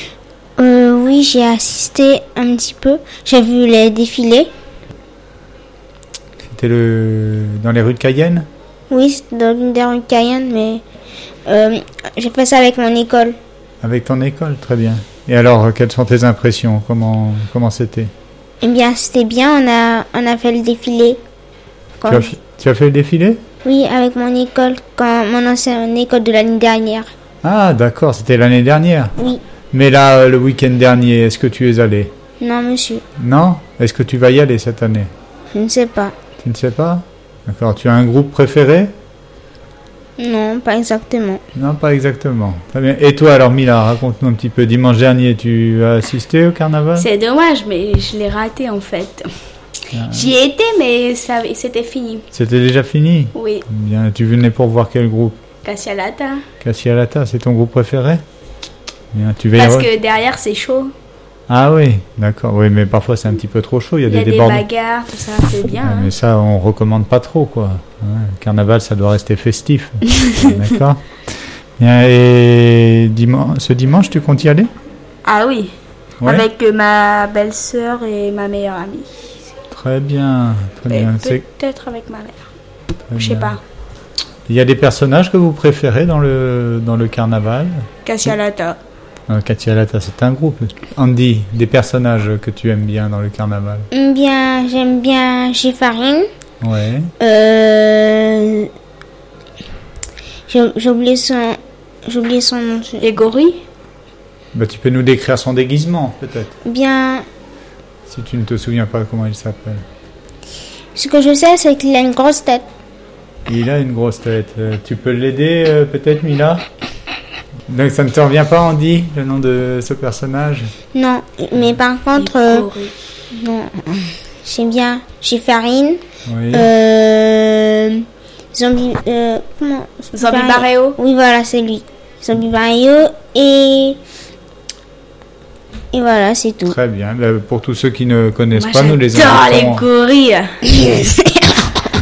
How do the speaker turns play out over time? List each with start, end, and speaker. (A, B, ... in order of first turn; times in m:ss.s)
0:00.6-0:04.5 A
0:06.4-0:08.5 B
0:08.9-0:10.8 A
0:11.5-0:13.4 A
0:13.8-0:18.1 B
0:18.6-0:21.2 A
0:22.0-0:22.3 A
0:22.1-0:23.4 B
0:23.6-0:27.1 A
0:27.4-0:29.1 B
0:29.7-0:32.1 B
0:32.4-0:33.0 A
0:33.2-0:35.1 B
0:35.5-0:36.1 A
0:36.4-0:38.9 B
0:40.2-0:41.4 A
0:41.5-0:47.1 B
0:47.0-0:49.3 C
0:49.9-0:50.3 B
0:50.1-0:52.2 C
0:52.3-0:55.4 B
0:53.3-0:53.7 C
0:55.6-0:56.4 C
0:56.6-0:58.2 B
0:59.1-0:59.9 B
0:59.6-1:00.9 C
1:01.5-1:04.6 B
1:04.1-1:06.1 C
1:05.8-1:11.0 B
1:10.3-1:10.6 C
1:11.8-1:14.7 B
1:15.2-1:19.1 C
1:16.2-1:16.5 B
1:19.7-1:21.4 B
1:20.9-1:22.4 C
1:23.1-1:23.6 B
1:23.2-1:23.6 C
1:24.5-1:28.3 B
1:28.0-1:28.8 C
1:29.3-1:33.9 B
1:33.9-1:36.3 A
1:36.6-1:37.1 B
1:37.2-1:38.7 A
1:40.5-1:43.1 A
1:43.0-1:43.6 C
1:44.5-1:46.6 B
1:46.6-1:47.2 A
1:48.1-1:49.8 B
1:51.0-1:52.7 A
1:53.5-1:56.7 B
1:57.7-2:00.7 B
2:00.9-2:02.7 A
2:02.2-2:02.9 C
2:03.3-2:14.0 A
2:06.2-2:06.7 B
2:10.1-2:11.0 C
2:15.9-2:16.8 A
2:16.7-2:19.9 B
2:18.5-2:21.5 C